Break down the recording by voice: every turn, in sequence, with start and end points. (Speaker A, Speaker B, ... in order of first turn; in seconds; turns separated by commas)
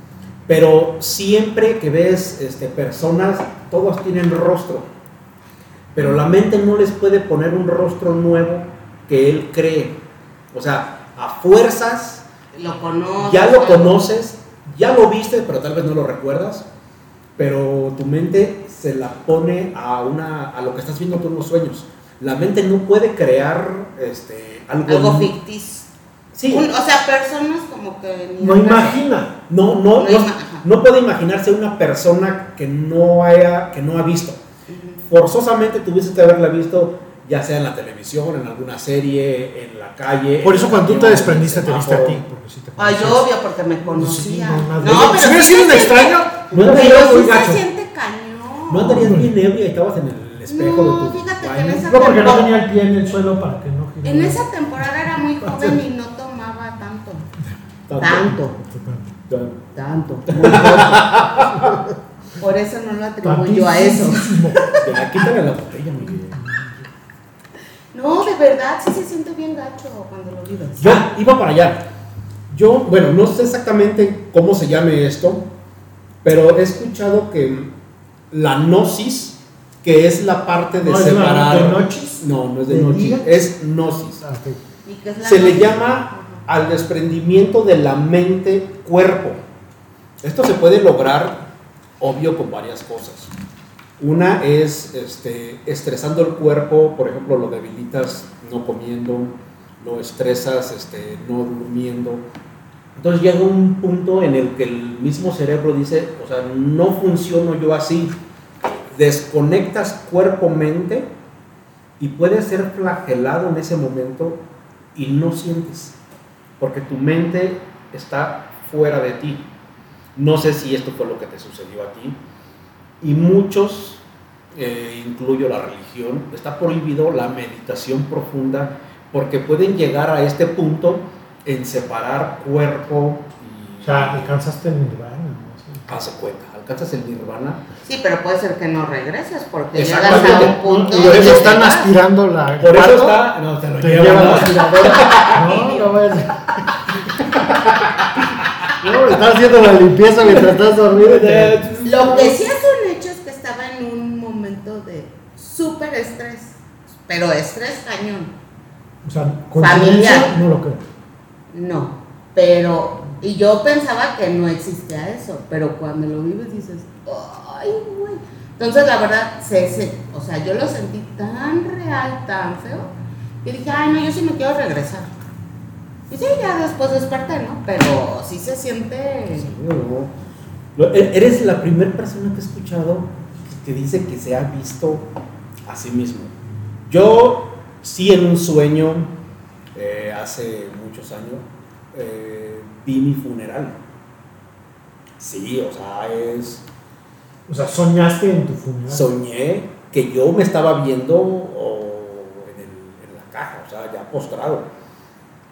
Speaker A: 0.5-4.9, Speaker A: 5.9-10.0, Speaker A: 10.5-12.2, Speaker B: 12.5-14.0, Speaker A: 13.2-16.6, Speaker A: 17.4-25.3, Speaker B: 24.9-25.9, Speaker A: 26.3-26.7, Speaker B: 26.5-29.0, Speaker C: 28.4-29.3, Speaker A: 29.5-34.4, Speaker B: 30.0-30.6, Speaker B: 34.7-35.0, Speaker A: 35.1-42.2, Speaker C: 40.4-43.3, Speaker B: 42.8-49.0, Speaker C: 43.8-47.6, Speaker A: 46.5-46.8, Speaker A: 48.7-51.9, Speaker C: 48.9-49.3, Speaker B: 50.5-52.5, Speaker C: 51.9-54.5, Speaker B: 54.0-57.3, Speaker C: 55.4-55.8, Speaker A: 57.9-58.4, Speaker B: 58.0-58.6, Speaker C: 58.5-59.2, Speaker A: 59.3-59.6, Speaker B: 59.7-61.3, Speaker A: 60.3-61.7, Speaker C: 61.4-62.0, Speaker B: 62.4-64.8, Speaker C: 63.2-64.7, Speaker A: 64.8-66.4, Speaker C: 66.3-66.8, Speaker B: 67.9-71.0, Speaker A: 70.8-71.8, Speaker A: 72.5-75.4, Speaker A: 76.2-77.7, Speaker A: 78.3-84.2, Speaker C: 80.8-83.5, Speaker C: 84.2-84.6, Speaker B: 84.8-86.4, Speaker A: 85.2-89.4, Speaker A: 90.2-91.4, Speaker A: 92.0-93.3, Speaker A: 94.0-102.2, Speaker A: 103.0-108.2, Speaker A: 108.9-111.1, Speaker A: 112.0-114.4, Speaker A: 115.0-116.0, Speaker A: 116.6-119.5, Speaker A: 120.2-122.2, Speaker A: 123.0-124.0, Speaker A: 124.5-134.3, Speaker C: 133.8-135.9, Speaker A: 135.9-137.6, Speaker B: 137.8-141.9, Speaker A: 139.7-141.8, Speaker C: 140.0-143.2, Speaker A: 142.6-145.4, Speaker C: 143.8-146.4, Speaker B: 144.4-146.2, Speaker A: 147.2-148.7, Speaker C: 148.8-151.7, Speaker A: 150.2-152.4, Speaker B: 151.8-158.3, Speaker C: 159.0-160.8, Speaker B: 159.6-160.3, Speaker B: 161.5-172.9, Speaker B: 173.4-175.1, Speaker B: 176.1-179.5, Speaker A: 179.3-180.1, Speaker A: 180.8-185.1, Speaker A: 185.7-186.3, Speaker A: 186.9-189.1, Speaker A: 189.8-193.8, Speaker A: 195.2-196.6, Speaker C: 197.5-199.1, Speaker A: 198.9-204.7